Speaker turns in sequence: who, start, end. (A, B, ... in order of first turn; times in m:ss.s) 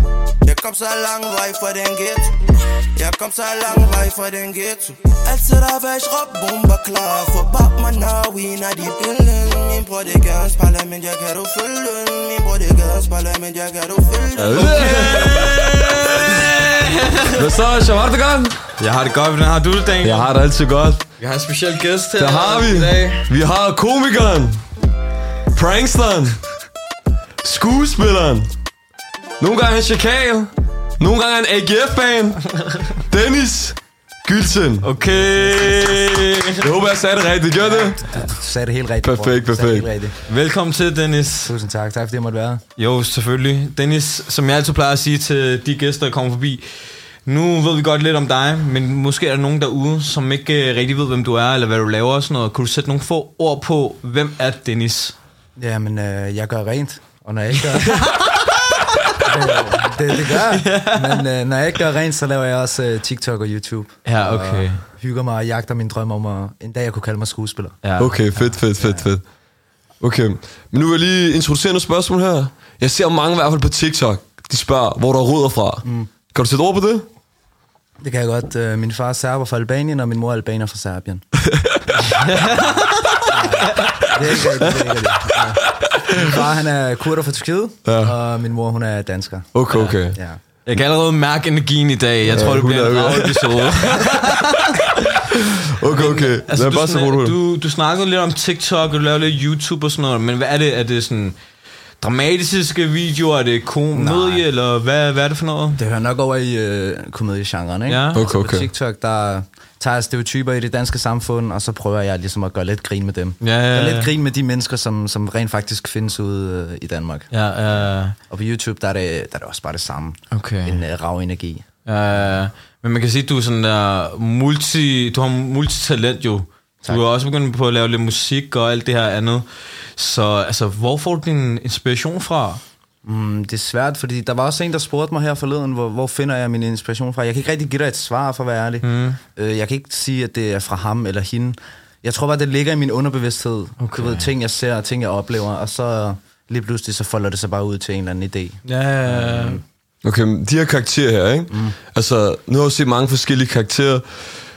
0:00.4-0:02.4 A
0:03.0-0:15.6 A
0:14.4-0:16.6 B
0:14.5-0:17.5 C
0:17.3-0:18.7 B
0:18.8-0:20.3 C
0:20.0-0:21.0 B
0:21.2-0:23.3 C
0:22.2-0:24.6 B
0:25.5-0:26.4 B
0:27.4-0:28.5 B
0:29.4-0:34.9 B
0:34.8-0:36.7 C
0:36.6-0:38.0 B
0:37.6-0:40.2 D
0:39.0-0:39.9 B
0:40.3-0:41.5 C
0:41.4-0:42.6 D
0:42.8-0:55.2 C
0:55.6-0:58.1 D
0:57.8-0:58.4 C
0:59.2-1:07.8 D
1:00.2-1:01.2 C
1:04.1-1:04.8 C
1:07.8-1:08.6 C
1:08.0-1:09.2 B
1:08.8-1:09.1 D
1:10.0-1:17.1 B
1:15.8-1:16.1 D
1:18.0-1:21.2 D
1:21.4-1:21.9 B
1:22.0-1:24.0 C
1:23.2-1:29.5 D
1:27.8-1:28.2 B
1:29.5-1:30.2 B
1:29.7-1:30.0 C
1:30.1-1:30.4 D
1:30.7-1:35.2 C
1:32.3-1:34.3 B
1:35.3-1:37.4 B
1:35.8-1:41.4 C
1:42.0-1:45.8 C
1:43.9-1:44.4 D
1:45.8-2:01.6 D
1:47.9-1:48.2 C
1:48.1-1:48.7 B
1:53.4-1:54.1 C
1:57.3-1:58.2 C
2:00.3-2:00.8 C
2:01.9-2:12.6 C
2:13.0-2:29.6 D
2:18.8-2:19.2 C
2:23.8-2:24.3 C
2:28.7-2:29.6 C
2:30.0-2:34.1 B
2:31.5-2:31.8 D